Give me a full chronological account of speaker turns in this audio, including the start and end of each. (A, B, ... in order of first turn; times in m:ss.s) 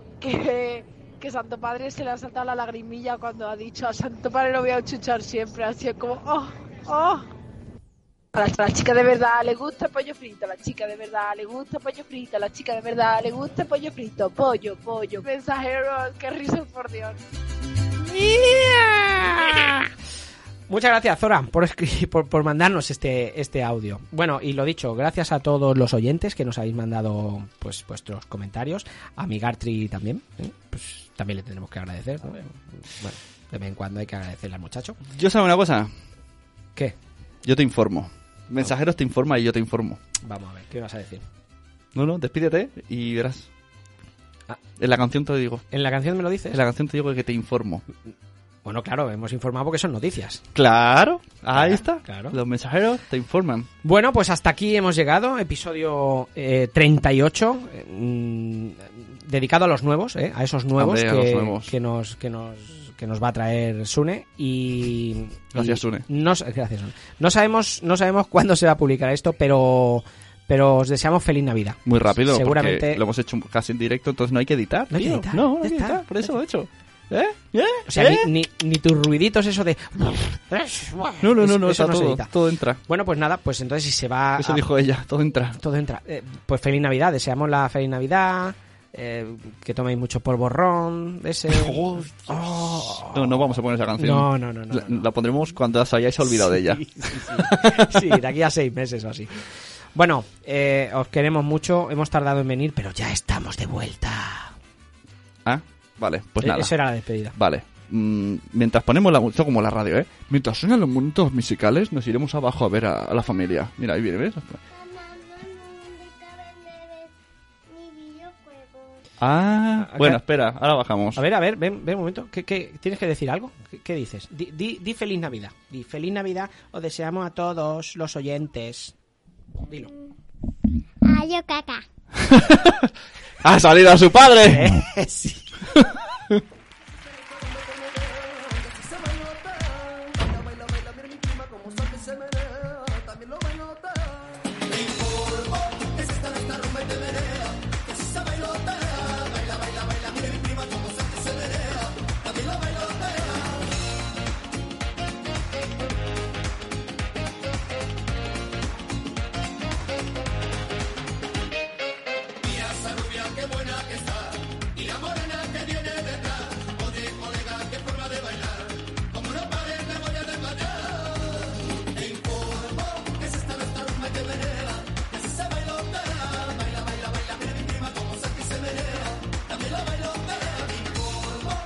0:00.2-0:07.3 A
0:08.4-0:17.2 A
0:18.1-0:19.9 B
0:20.7-0:35.0 B
0:35.1-0:35.9 C
0:37.4-0:40.0 C
0:40.2-0:41.2 B
0:41.9-0:43.5 C
0:44.8-0:45.6 C
0:45.7-0:46.6 B
0:46.5-0:47.8 C
0:48.6-0:50.4 B
0:50.6-0:53.7 C
0:51.5-0:52.4 B
0:53.8-1:13.0 B
1:00.8-1:01.7 C
1:05.6-1:06.0 C
1:11.8-1:18.3 C
1:14.9-1:16.3 B
1:17.9-1:22.3 B
1:21.2-1:22.8 C
1:22.9-1:24.7 B
1:24.4-1:25.6 C
1:25.6-1:33.4 B
1:31.5-1:38.2 C
1:34.0-1:35.1 B
1:36.2-1:44.5 B
1:45.4-1:46.7 C
1:46.4-1:47.4 B
1:47.4-1:54.6 C
1:54.7-1:57.1 D
1:57.7-1:59.0 D
1:59.2-2:01.2 C
1:59.8-2:00.2 B
2:01.2-2:08.9 B
2:11.1-2:11.8 D
2:12.2-2:12.9 C
2:13.4-2:14.8 C
2:14.4-2:15.5 B
2:15.7-2:16.4 C
2:42.8-2:48.6 E
2:49.1-2:50.4 E
2:52.4-2:53.9 E
2:55.0-3:00.9 E